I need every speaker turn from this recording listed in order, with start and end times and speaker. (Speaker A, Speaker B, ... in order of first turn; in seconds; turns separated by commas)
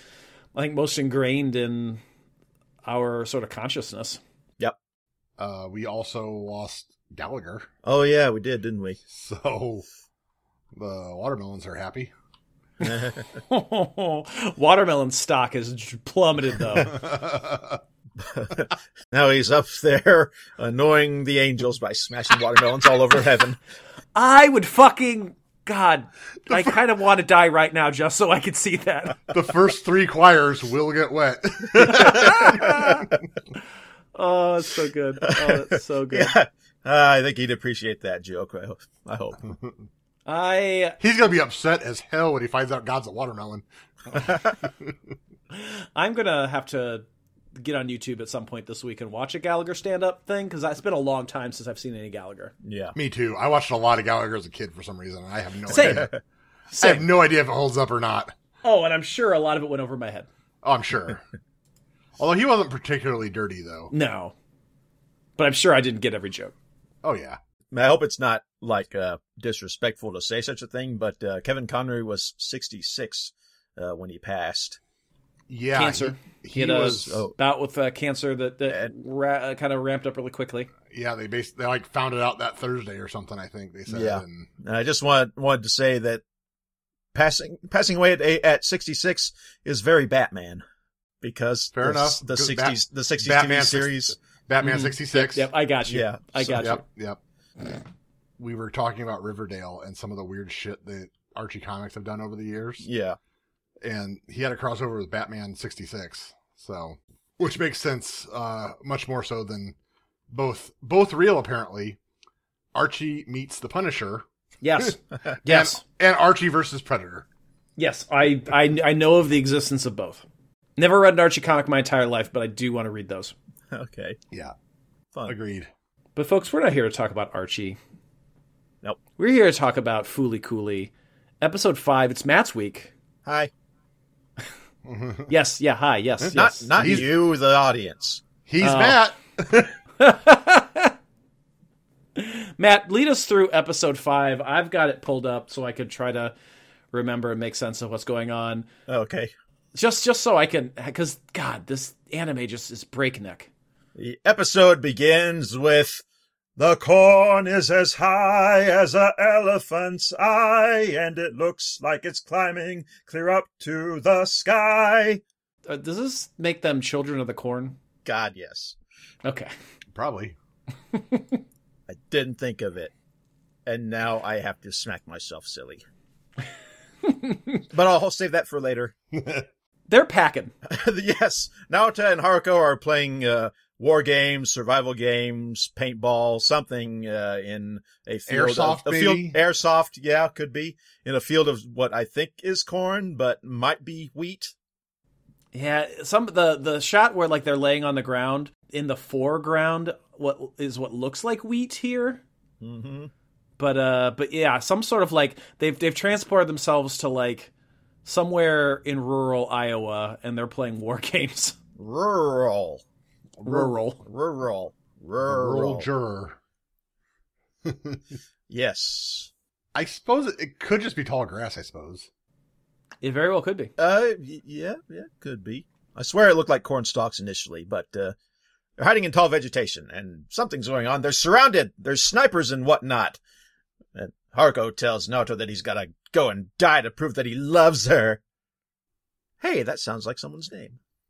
Speaker A: 0.5-2.0, Speaker A: 2.8-4.2, Speaker B: 5.4-7.7, Speaker C: 7.8-9.0, Speaker B: 9.1-9.8, Speaker B: 10.7-12.1, Speaker C: 12.8-13.2, Speaker A: 12.8-17.0, Speaker B: 16.8-17.8, Speaker C: 18.2-23.6, Speaker A: 24.1-29.2, Speaker B: 29.3-33.1, Speaker A: 31.8-33.1, Speaker A: 34.1-36.4, Speaker C: 35.2-39.4, Speaker A: 40.2-41.0, Speaker B: 41.0-44.9, Speaker C: 44.1-44.5, Speaker A: 45.5-52.5, Speaker C: 52.6-52.9, Speaker B: 52.9-56.1, Speaker A: 55.7-56.1, Speaker C: 55.8-56.0, Speaker A: 56.7-57.1, Speaker B: 56.8-58.3, Speaker A: 58.6-60.3, Speaker B: 60.6-61.2, Speaker B: 62.2-63.9, Speaker A: 63.9-64.3, Speaker A: 65.4-66.5, Speaker B: 67.0-67.4, Speaker C: 67.7-74.8, Speaker B: 75.5-77.3, Speaker A: 75.7-80.7, Speaker C: 77.1-77.3, Speaker C: 78.7-78.9, Speaker B: 80.9-84.5, Speaker C: 83.9-86.2, Speaker C: 87.1-90.6, Speaker C: 91.2-94.2, Speaker B: 91.7-95.5, Speaker A: 94.6-96.8, Speaker C: 95.9-96.7, Speaker B: 96.5-97.2, Speaker B: 98.4-102.8, Speaker C: 102.8-103.2, Speaker B: 103.8-109.7, Speaker B: 110.3-112.0, Speaker B: 112.7-114.2, Speaker A: 114.6-115.8, Speaker B: 114.8-117.2, Speaker A: 117.8-120.2, Speaker A: 120.8-123.3, Speaker C: 123.7-124.2, Speaker B: 125.2-125.7, Speaker A: 126.2-127.8, Speaker A: 129.2-132.9, Speaker C: 133.2-133.5, Speaker B: 134.8-135.3, Speaker A: 135.3-137.0, Speaker C: 136.3-138.2, Speaker B: 136.8-137.1, Speaker B: 138.4-139.7, Speaker A: 138.6-139.0, Speaker A: 140.0-140.9, Speaker A: 142.2-146.3, Speaker A: 146.9-148.7, Speaker C: 148.9-149.3, Speaker A: 149.7-153.5, Speaker C: 153.9-156.0, Speaker C: 156.6-165.2, Speaker A: 165.7-167.8, Speaker C: 168.0-168.8, Speaker A: 169.2-169.5, Speaker B: 169.9-170.3, Speaker A: 170.9-171.4, Speaker C: 171.9-172.9, Speaker C: 173.7-175.8, Speaker A: 177.0-177.6, Speaker C: 177.7-178.9, Speaker B: 179.1-179.4, Speaker A: 179.9-180.5, Speaker C: 180.6-194.5, Speaker B: 188.3-189.4, Speaker A: 195.5-202.2, Speaker C: 202.6-203.1, Speaker A: 203.6-207.5, Speaker A: 208.0-211.6, Speaker C: 211.8-212.8, Speaker B: 213.4-213.8, Speaker A: 213.4-214.0, Speaker C: 214.0-215.9, Speaker B: 215.2-216.4, Speaker B: 217.7-218.0, Speaker C: 218.5-219.3, Speaker B: 219.7-222.1, Speaker A: 223.0-223.7, Speaker C: 223.8-228.1, Speaker C: 228.8-233.2, Speaker C: 233.9-238.2, Speaker C: 239.4-240.8